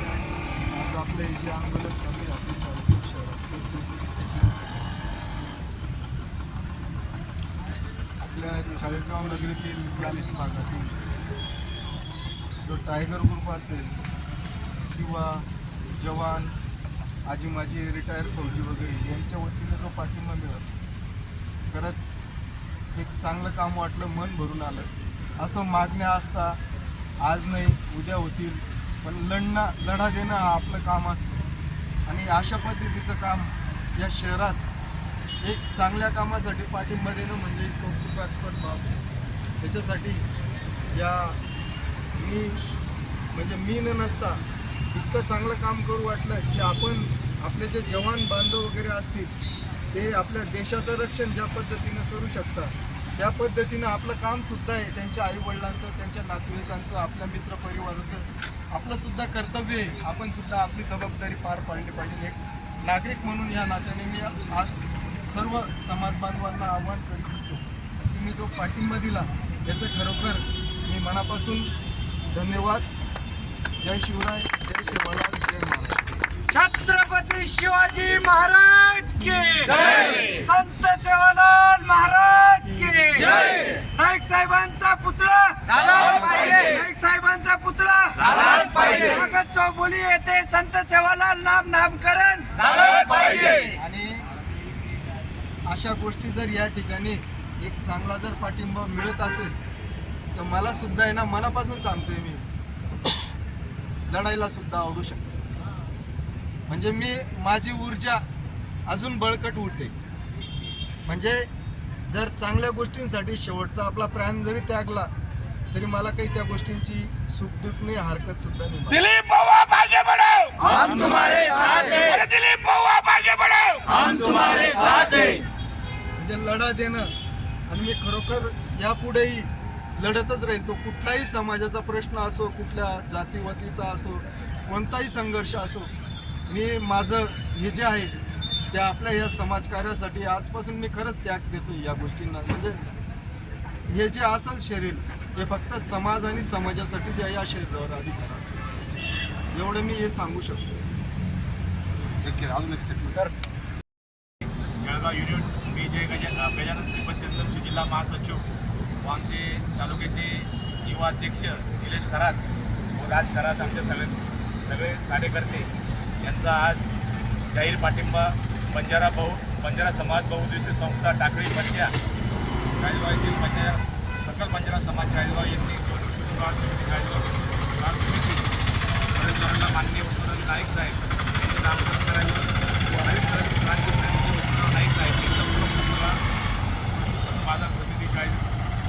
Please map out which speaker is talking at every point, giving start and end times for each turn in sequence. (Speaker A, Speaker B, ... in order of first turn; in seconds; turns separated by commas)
Speaker A: 0.7-4.9, Speaker A: 8.2-11.0, Speaker A: 12.6-14.0, Speaker A: 14.9-16.5, Speaker A: 17.2-20.7, Speaker A: 21.7-22.1, Speaker A: 22.9-26.6, Speaker A: 27.2-31.4, Speaker A: 32.1-34.6, Speaker A: 35.4-39.0, Speaker A: 39.6-40.2, Speaker A: 40.9-41.4, Speaker A: 42.1-42.6, Speaker A: 43.3-49.3, Speaker A: 49.9-71.7, Speaker A: 72.3-72.9, Speaker A: 73.8-75.9, Speaker B: 76.5-93.7, Speaker A: 93.7-94.2, Speaker A: 95.7-99.6, Speaker A: 100.3-102.5, Speaker A: 104.1-105.3, Speaker A: 106.7-108.2, Speaker A: 108.9-109.9, Speaker A: 111.0-111.5, Speaker A: 112.1-115.1, Speaker A: 115.7-119.1, Speaker C: 118.9-125.2, Speaker B: 120.7-121.9, Speaker A: 126.2-127.1, Speaker A: 127.7-135.9, Speaker A: 136.5-138.2, Speaker A: 138.7-142.9, Speaker A: 143.9-148.6, Speaker A: 149.5-150.7, Speaker D: 152.2-153.3, Speaker A: 152.4-152.7, Speaker D: 154.8-158.4, Speaker D: 159.0-165.7, Speaker D: 166.2-166.8, Speaker D: 167.5-171.9, Speaker D: 172.8-178.5, Speaker D: 179.1-186.2, Speaker D: 186.9-188.5